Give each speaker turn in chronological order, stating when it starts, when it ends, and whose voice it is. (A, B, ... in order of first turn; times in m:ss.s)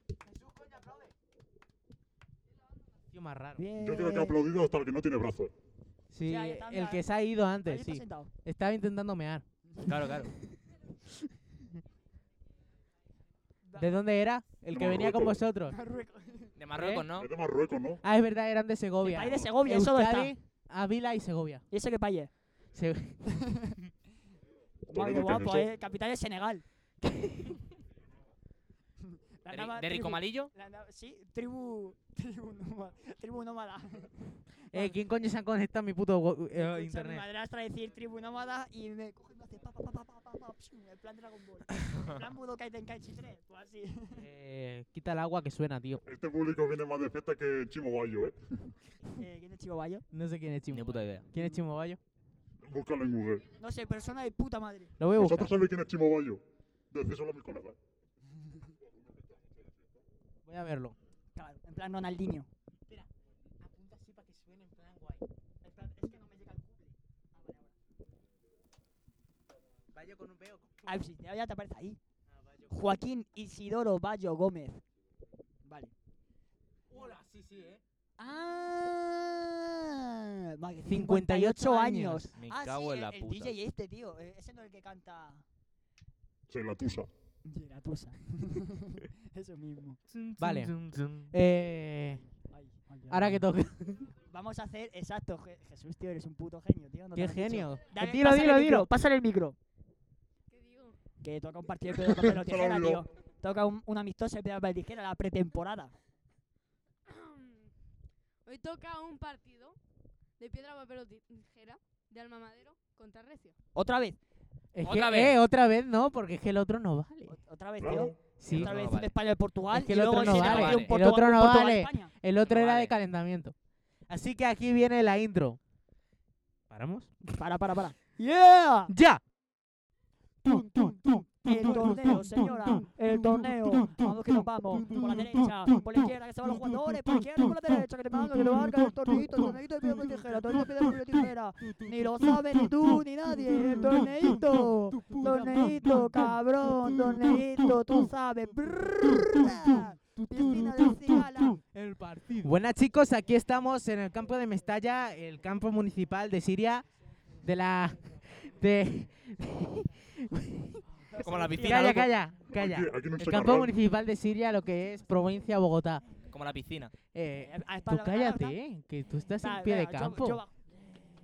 0:00.3-0:01.1 A
0:03.1-0:03.6 A
0:03.6-0:04.4 B
0:03.8-0:05.5 C
0:06.1-0:09.4 A
0:06.2-0:07.1 B
0:07.6-0:08.3 B
0:09.8-0:10.3 D
0:13.6-0:13.9 B
0:13.8-0:15.7 A
0:14.7-0:15.4 C
0:15.7-0:16.5 B
0:16.6-0:17.3 D
0:16.7-0:17.0 A
0:17.1-0:18.0 C
0:18.0-0:21.6 A
0:19.0-0:20.3 B
0:21.7-0:22.3 B
0:22.7-0:23.2 A
0:23.3-0:23.8 B
0:24.9-0:26.6 B
0:24.9-0:25.7 C
0:29.4-0:35.0 B
0:29.5-0:30.5 D
0:34.7-0:37.2 A
0:36.5-0:44.2 B
0:44.1-0:46.0 A
0:46.0-0:48.7 C
0:49.0-0:50.0 B
0:50.1-0:52.0 A
0:50.7-0:51.2 D
0:51.3-0:51.6 B
0:52.6-0:53.5 C
0:53.6-0:55.0 B
0:55.0-0:55.6 A
0:55.1-0:57.8 C
1:00.4-1:01.0 A
1:01.4-1:02.5 B
1:03.6-1:05.2 A
1:05.6-1:07.7 B
1:09.9-1:11.0 A
1:10.8-1:12.0 B
1:12.3-1:12.7 A
1:12.7-1:14.8 B
1:15.6-1:15.9 B
1:16.9-1:17.8 A
1:18.2-1:25.4 B
1:20.8-1:22.3 A
1:22.4-1:23.5 D
1:26.5-1:27.1 C
1:27.4-1:30.0 B
1:30.1-1:31.3 D
1:30.4-1:32.2 A
1:32.3-1:33.4 B
1:33.1-1:34.1 A
1:34.3-1:39.6 B
1:37.1-1:38.9 A
1:40.5-1:41.0 E
1:41.2-1:45.9 B
1:42.2-1:43.0 C
1:47.1-1:47.7 E
1:48.4-1:49.8 E
1:50.4-1:53.6 E
1:53.7-1:54.2 B
1:54.7-1:57.4 A
1:54.8-1:55.4 D
1:57.3-2:02.1 B
1:57.8-1:58.2 C
1:58.4-1:58.7 A
1:58.5-1:59.1 D
1:59.7-2:03.5 A
2:00.1-2:00.9 D
2:02.4-2:02.9 D
2:04.1-2:05.6 A
2:06.7-2:07.1 A
2:07.4-2:08.9 B
2:08.9-2:09.2 A
2:10.5-2:31.6 B
2:24.9-2:25.9 A
2:30.3-2:36.8 A
2:37.4-2:40.8 A
2:41.1-2:42.0 B
2:41.2-2:42.1 D
2:41.6-2:46.0 A
2:42.5-2:43.8 C
2:46.3-2:46.9 D
2:47.1-2:50.4 A
2:47.4-2:48.6 B
2:49.4-2:50.5 B